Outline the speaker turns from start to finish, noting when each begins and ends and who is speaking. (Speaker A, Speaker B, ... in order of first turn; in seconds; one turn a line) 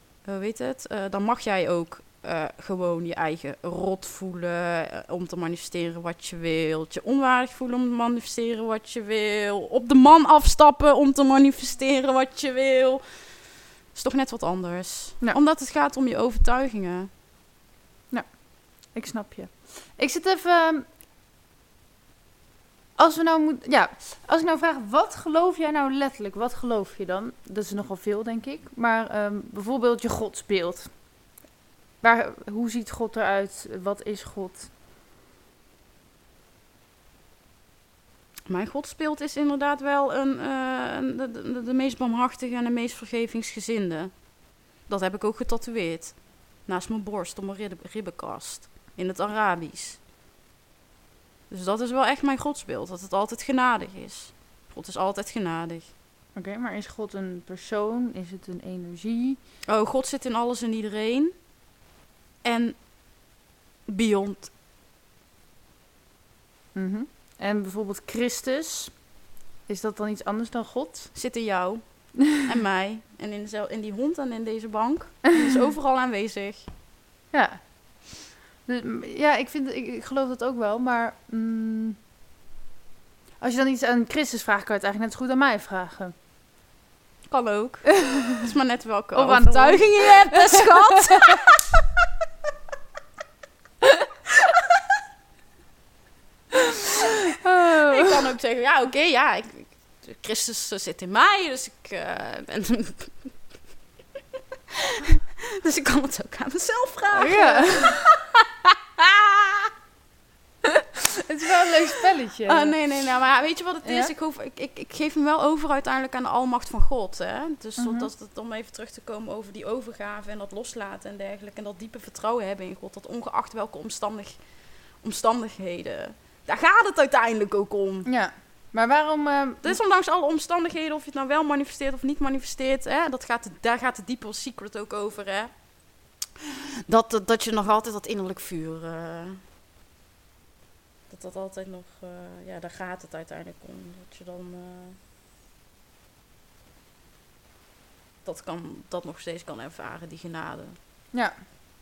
Speaker A: 0.2-17.1
Speaker B: 18.1-20.8
Speaker B: 22.9-31.2
Speaker B: 32.0-34.7
Speaker A: 38.5-50.0
Speaker A: 51.5-55.9
Speaker B: 56.3-59.4
Speaker A: 59.6-61.4
Speaker A: 62.4-63.1
Speaker A: 63.9-64.5
Speaker B: 66.7-69.1
Speaker B: 69.7-71.2
Speaker A: 71.1-76.7
Speaker B: 77.3-82.0
Speaker B: 83.4-86.1
Speaker A: 87.3-91.5
Speaker B: 89.1-90.9
Speaker B: 97.4-98.2
Speaker A: 97.7-103.6
Speaker A: 105.0-109.7
Speaker B: 107.1-108.0
Speaker B: 111.2-112.8
Speaker A: 112.5-128.1
Speaker B: 113.8-114.1
Speaker B: 117.8-118.1
Speaker B: 128.1-129.8
Speaker A: 129.6-136.1
Speaker A: 136.9-139.4
Speaker A: 141.1-145.0
Speaker A: 148.2-150.8
Speaker B: 151.1-151.4